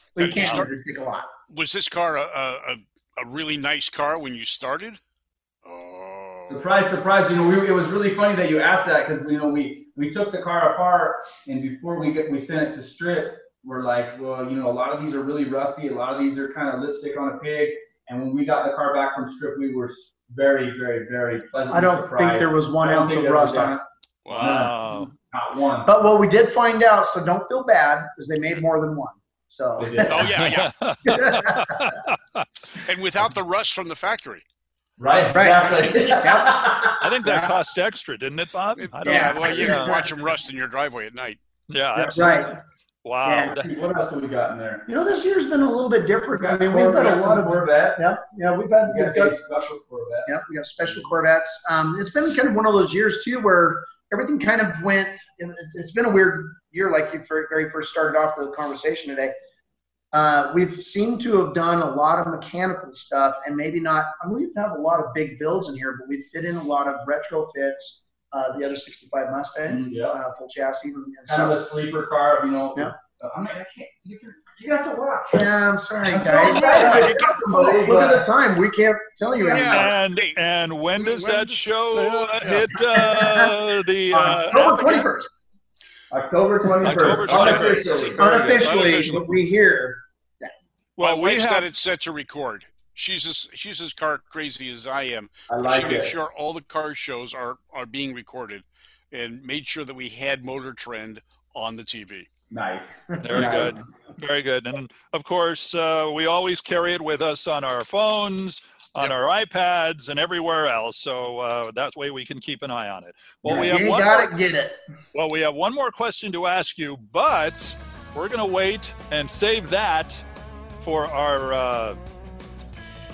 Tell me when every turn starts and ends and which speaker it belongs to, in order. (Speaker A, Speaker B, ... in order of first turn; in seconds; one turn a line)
Speaker A: 0.2-1.3
Speaker B: 0.2-0.7
Speaker C: 0.4-0.7
Speaker B: 1.5-5.0
Speaker B: 5.6-6.6
Speaker D: 6.5-23.8
Speaker A: 21.7-23.8
Speaker B: 24.2-24.7
Speaker C: 24.3-25.1
Speaker D: 24.4-25.9
Speaker A: 25.9-30.3
Speaker D: 29.8-30.2
Speaker B: 30.0-30.7
Speaker C: 30.4-32.5
Speaker A: 31.1-31.9
Speaker B: 32.8-34.4
Speaker D: 35.0-37.0
Speaker A: 35.3-37.6
Speaker B: 35.6-36.3
Speaker C: 37.0-40.1
Speaker B: 38.8-41.4
Speaker A: 39.0-40.0
Speaker C: 41.7-43.7
Speaker A: 42.0-42.5
Speaker A: 43.2-43.7
Speaker D: 43.5-44.9
Speaker A: 44.9-49.4
Speaker D: 46.3-48.0
Speaker D: 48.8-50.4
Speaker A: 50.3-59.3
Speaker A: 60.1-71.6
Speaker D: 69.7-70.2
Speaker D: 71.3-75.5
Speaker A: 75.3-80.0
Speaker D: 76.0-78.3
Speaker B: 76.3-77.5
Speaker B: 79.3-80.4
Speaker C: 79.6-85.1
Speaker B: 81.0-83.1
Speaker A: 83.0-83.5
Speaker A: 84.1-85.3
Speaker D: 86.1-88.3
Speaker C: 86.8-89.2
Speaker A: 87.3-90.5
Speaker B: 88.4-89.4
Speaker C: 91.0-91.7
Speaker B: 91.0-102.3
Speaker D: 95.5-96.1
Speaker D: 102.5-103.8
Speaker A: 103.2-103.8
Speaker C: 103.2-114.3
Speaker A: 113.4-114.8
Speaker C: 115.1-120.2
Speaker C: 120.8-122.0